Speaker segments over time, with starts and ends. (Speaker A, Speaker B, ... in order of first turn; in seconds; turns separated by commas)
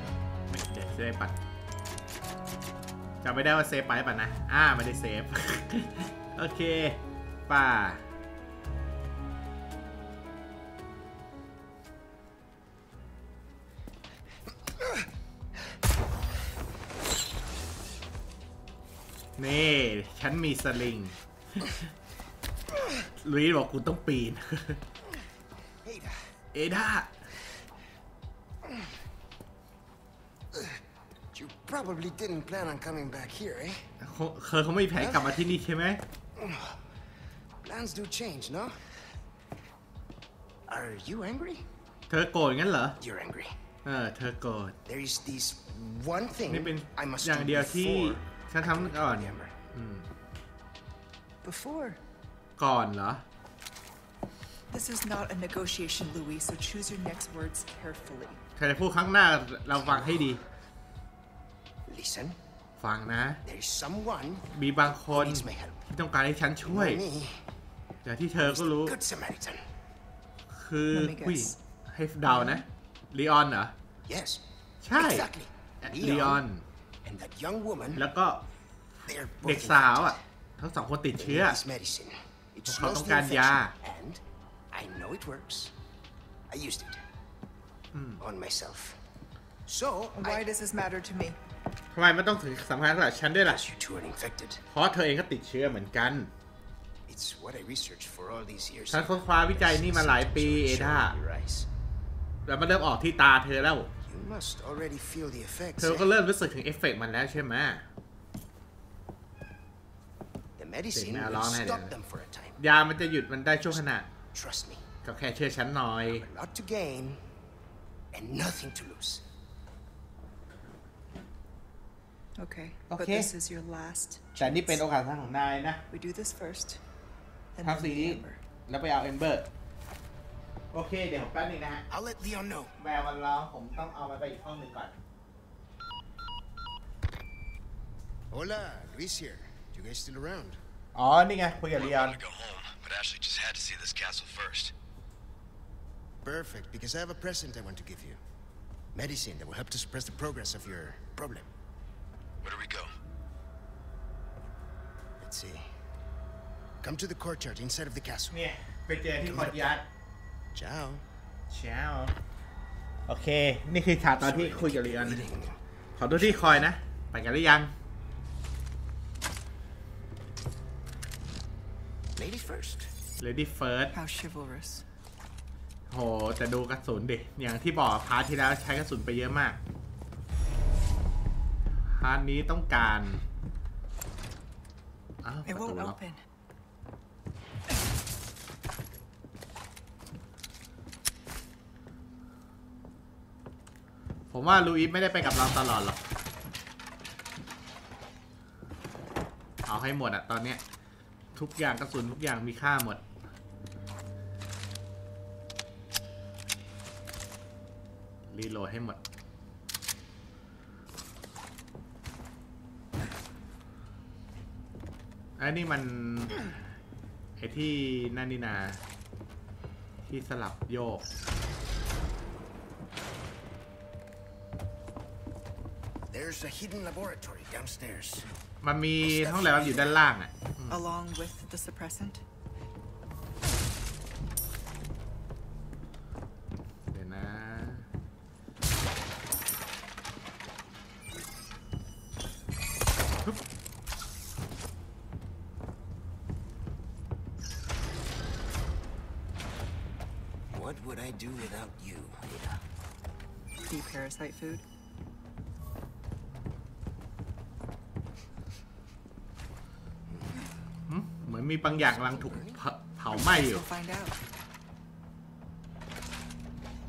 Speaker A: 0.5-1.4, Speaker A: 3.2-8.0, Speaker A: 19.4-21.8, Speaker A: 23.1-24.8, Speaker B: 25.8-26.2, Speaker A: 26.5-27.1, Speaker B: 28.6-29.0, Speaker B: 30.5-30.8, Speaker B: 31.3-33.9, Speaker A: 34.0-36.0, Speaker B: 35.0-35.5, Speaker B: 36.4-36.9, Speaker B: 37.6-38.8, Speaker B: 40.7-41.6, Speaker A: 42.1-43.0, Speaker B: 43.0-43.6, Speaker A: 43.8-44.8, Speaker B: 44.9-49.6, Speaker A: 46.5-50.1, Speaker C: 51.4-52.0, Speaker A: 52.6-53.2, Speaker C: 54.7-58.4, Speaker A: 58.6-60.4, Speaker B: 59.8-60.2, Speaker B: 61.9-62.4, Speaker A: 62.8-63.4, Speaker B: 63.5-64.5, Speaker A: 64.5-67.0, Speaker B: 65.1-65.8, Speaker B: 66.7-67.5, Speaker A: 68.0-69.0, Speaker B: 68.4-69.7, Speaker A: 70.5-73.7, Speaker C: 70.9-71.6, Speaker C: 72.3-72.6, Speaker B: 74.0-76.5, Speaker A: 74.8-75.3, Speaker A: 75.8-76.6, Speaker B: 77.0-78.1, Speaker A: 78.0-78.4, Speaker B: 79.0-80.2, Speaker A: 79.4-81.6, Speaker B: 81.2-85.7, Speaker A: 82.7-83.7, Speaker B: 86.5-87.0, Speaker A: 87.9-88.2, Speaker B: 88.2-89.0, Speaker B: 89.7-90.5, Speaker C: 90.2-91.4, Speaker A: 91.9-93.7, Speaker B: 93.4-94.6, Speaker A: 94.7-96.3, Speaker B: 97.1-101.7, Speaker A: 98.9-101.2, Speaker A: 102.5-103.9, Speaker B: 104.1-106.1, Speaker A: 105.8-107.8, Speaker B: 110.6-112.6, Speaker A: 110.9-111.9, Speaker A: 112.6-114.1, Speaker B: 114.3-114.9, Speaker A: 115.0-116.2, Speaker B: 116.0-117.2, Speaker B: 118.1-119.2, Speaker C: 122.4-124.8, Speaker A: 122.9-123.3, Speaker A: 124.4-125.8, Speaker C: 125.9-126.8, Speaker C: 127.5-128.4, Speaker A: 127.6-129.5, Speaker A: 130.7-131.8, Speaker B: 131.9-132.8, Speaker A: 132.8-134.9, Speaker B: 138.3-140.6, Speaker A: 140.9-142.2, Speaker D: 141.8-144.7, Speaker B: 146.2-148.2, Speaker B: 148.9-151.5, Speaker D: 152.4-152.9, Speaker B: 155.2-155.7, Speaker B: 156.8-158.4, Speaker A: 158.3-159.8, Speaker B: 159.3-159.7, Speaker B: 160.5-161.0, Speaker A: 161.5-162.2, Speaker A: 163.1-165.3, Speaker B: 164.2-165.6, Speaker A: 166.0-167.7, Speaker B: 166.1-166.7, Speaker B: 172.2-172.9, Speaker A: 173.2-173.9, Speaker C: 173.9-174.8, Speaker A: 175.9-179.6, Speaker A: 181.9-183.2, Speaker A: 185.2-186.0, Speaker C: 185.5-186.2, Speaker A: 194.3-196.0, Speaker A: 199.7-200.6, Speaker A: 201.3-203.0, Speaker A: 208.3-209.0, Speaker A: 215.4-216.5, Speaker A: 217.4-218.8, Speaker A: 220.1-221.1, Speaker B: 226.1-228.3, Speaker A: 228.6-230.8, Speaker B: 229.0-230.0, Speaker C: 230.7-232.2, Speaker A: 236.9-237.9, Speaker B: 250.5-252.6, Speaker C: 253.7-254.6, Speaker B: 260.1-260.3, Speaker A: 260.9-263.6, Speaker B: 261.7-262.6, Speaker C: 263.1-264.2